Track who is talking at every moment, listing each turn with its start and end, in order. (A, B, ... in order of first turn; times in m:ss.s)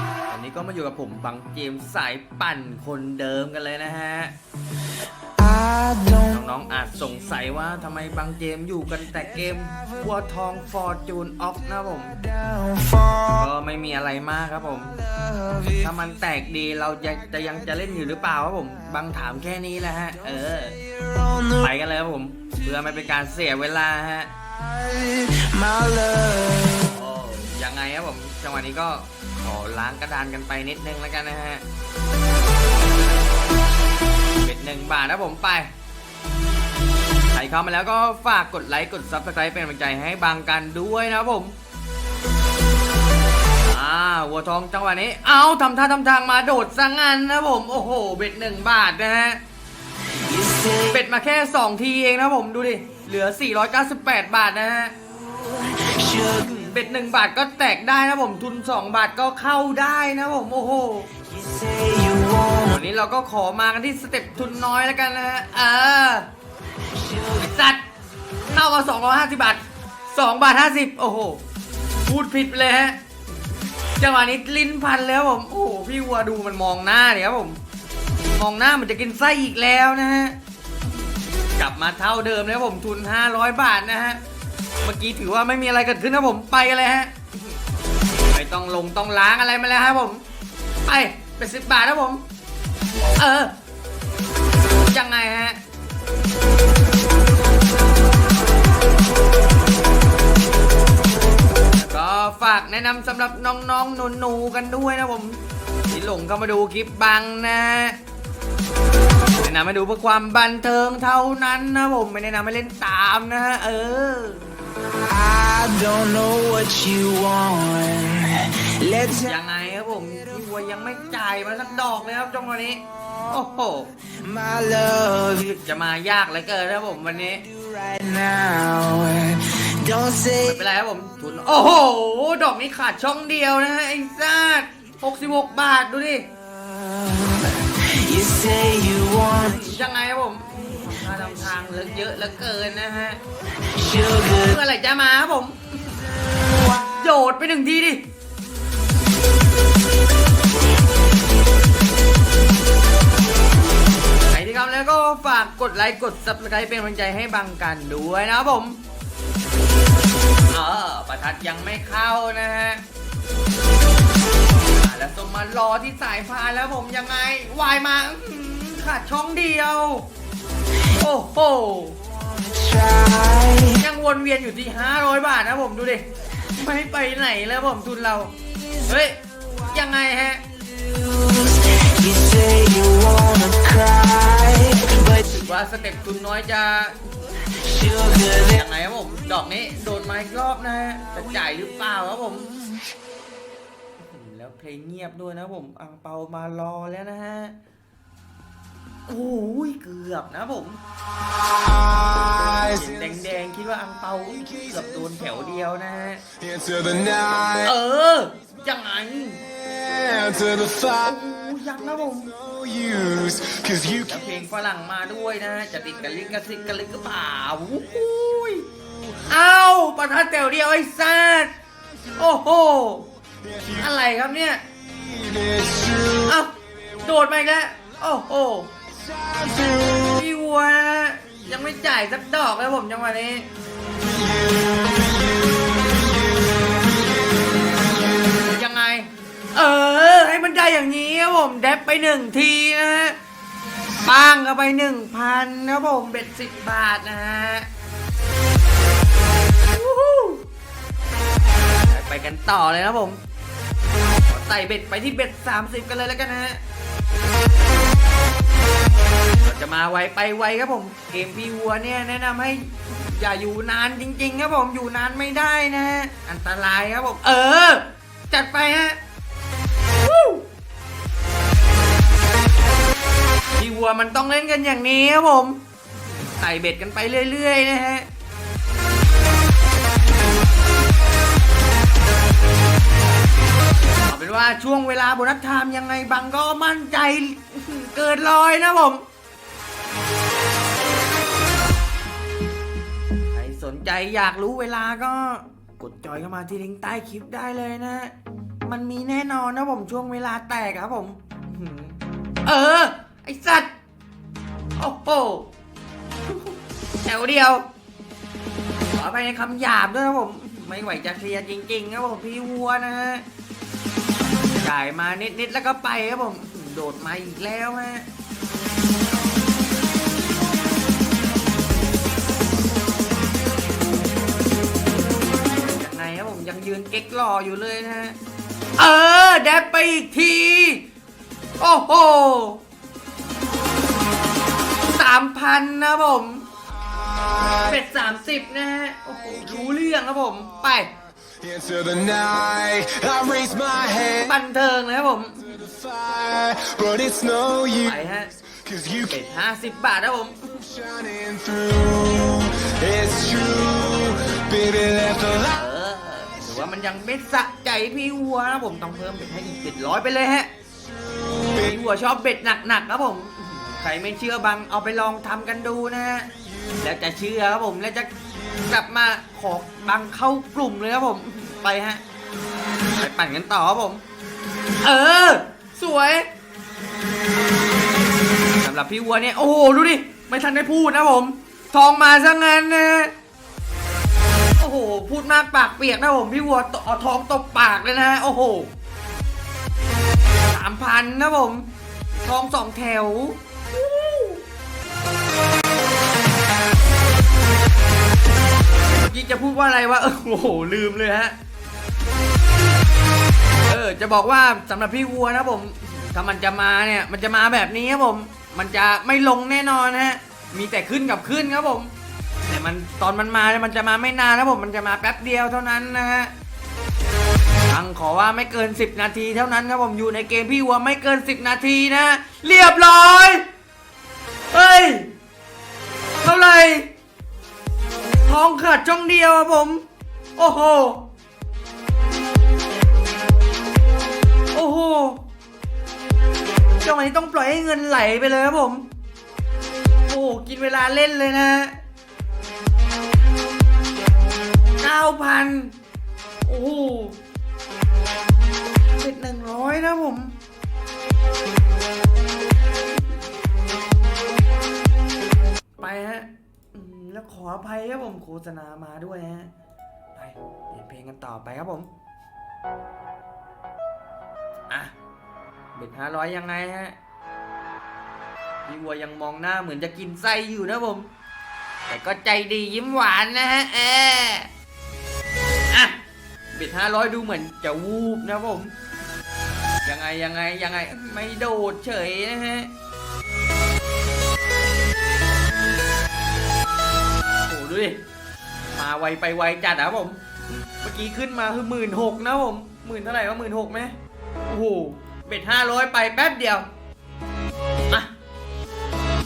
0:00.3-0:04.3 A
0:05.4-0:06.3 B
0:06.2-0:12.3 A
0:12.4-0:13.2 B
0:13.1-0:15.1 A
0:15.3-0:15.7 B
0:15.7-0:20.8 A
0:21.4-0:24.3 A
0:24.6-0:26.9 B
0:26.7-0:31.6 A
0:34.4-0:35.7 A
0:37.3-0:41.6 A
0:43.6-0:49.4 A
0:50.2-0:50.9 B
0:50.7-0:54.9 A
0:55.6-0:56.3 B
0:56.1-1:01.1 A
1:01.4-1:02.7 B
1:02.6-1:06.3 A
1:07.1-1:07.8 A
1:08.4-1:11.4 A
1:12.0-1:13.0 A
1:14.0-1:17.6 A
1:18.3-1:20.4 A
1:21.6-1:24.2 A
1:24.8-1:27.6 A
1:28.3-1:30.2 A
1:30.8-1:32.2 A
1:33.2-1:33.5 A
1:34.9-1:35.6 A
1:41.7-1:48.0 A
1:49.4-1:54.5 A
1:55.0-1:59.3 B
1:59.2-2:03.9 A
2:04.1-2:05.6 B
2:05.4-2:07.5 A
2:07.5-2:10.5 B
2:10.3-2:16.3 A
2:16.6-2:19.6 B
2:19.3-2:23.2 A
2:23.7-2:24.4 B
2:24.1-2:28.0 A
2:34.3-2:38.8 A
2:40.5-2:42.8 A
2:44.8-2:50.1 A
2:50.9-2:52.0 A
2:52.4-2:53.8 B
2:53.6-3:00.4 A
3:00.9-3:05.0 B
3:05.0-3:07.1 A
3:07.7-3:08.4 B
3:08.2-3:12.6 A
3:14.0-3:17.6 A
3:19.1-3:20.8 A
3:22.1-3:26.2 A
3:26.4-3:27.3 C
3:26.7-3:27.4 B
3:27.4-3:29.4 A
3:29.8-3:30.7 B
3:30.2-3:30.5 C
3:30.7-3:32.6 A
3:32.6-3:33.8 C
3:33.1-3:33.6 B
3:33.8-3:41.5 A
3:42.2-3:43.1 A
3:43.6-3:44.6 A
3:45.2-3:46.0 B
3:46.1-3:48.7 A
3:49.2-3:49.8 B
3:49.8-3:53.5 A
3:58.4-4:03.2 A
4:04.0-4:07.7 A
4:09.7-4:10.4 A
4:11.9-4:13.2 A
4:14.2-4:16.6 A
4:19.4-4:29.0 A
4:30.0-4:30.4 A
4:33.6-4:35.6 A
4:36.1-4:38.1 A
4:43.9-4:49.0 A
4:53.3-5:03.7 A
5:04.8-5:05.5 A
5:06.2-5:07.7 A
5:08.9-5:13.2 A
5:14.6-5:18.1 A
5:25.6-5:28.2 A
5:28.8-5:30.8 A
5:31.6-5:32.6 A
5:34.9-5:36.5 A
5:37.6-5:40.9 A
5:41.4-5:44.0 C
5:41.7-5:43.5 B
5:44.0-5:45.7 A
5:45.7-5:47.8 C
5:46.2-5:47.5 B
5:47.8-5:51.0 A
5:50.9-5:51.8 C
5:51.7-5:55.0 B
5:52.8-5:55.1 C
5:55.2-6:00.5 A
6:01.5-6:08.1 A
6:08.6-6:12.0 A
6:13.0-6:14.0 A
6:14.8-6:16.3 A
6:18.6-6:23.1 A
6:24.6-6:28.7 A
6:30.5-6:34.4 A
6:38.9-6:41.3 A
6:43.6-6:51.9 A
6:52.4-6:56.3 A
6:57.7-7:03.4 A
7:04.5-7:05.1 A
7:06.2-7:06.9 A
7:08.2-7:09.8 A
7:10.4-7:11.0 A
7:14.5-7:15.2 A
7:16.8-7:18.9 A
7:20.1-7:21.8 A
7:24.8-7:25.7 A
7:26.4-7:27.2 A
7:28.8-7:30.4 A
7:35.8-7:39.5 A
7:40.1-7:41.9 A
7:45.7-7:47.0 A
7:48.6-7:51.1 A
7:51.9-7:54.5 A
7:55.7-7:56.0 A
7:56.5-7:58.7 A
7:59.8-8:02.7 A
8:07.4-8:08.0 A
8:08.7-8:13.9 A
8:14.4-8:16.7 A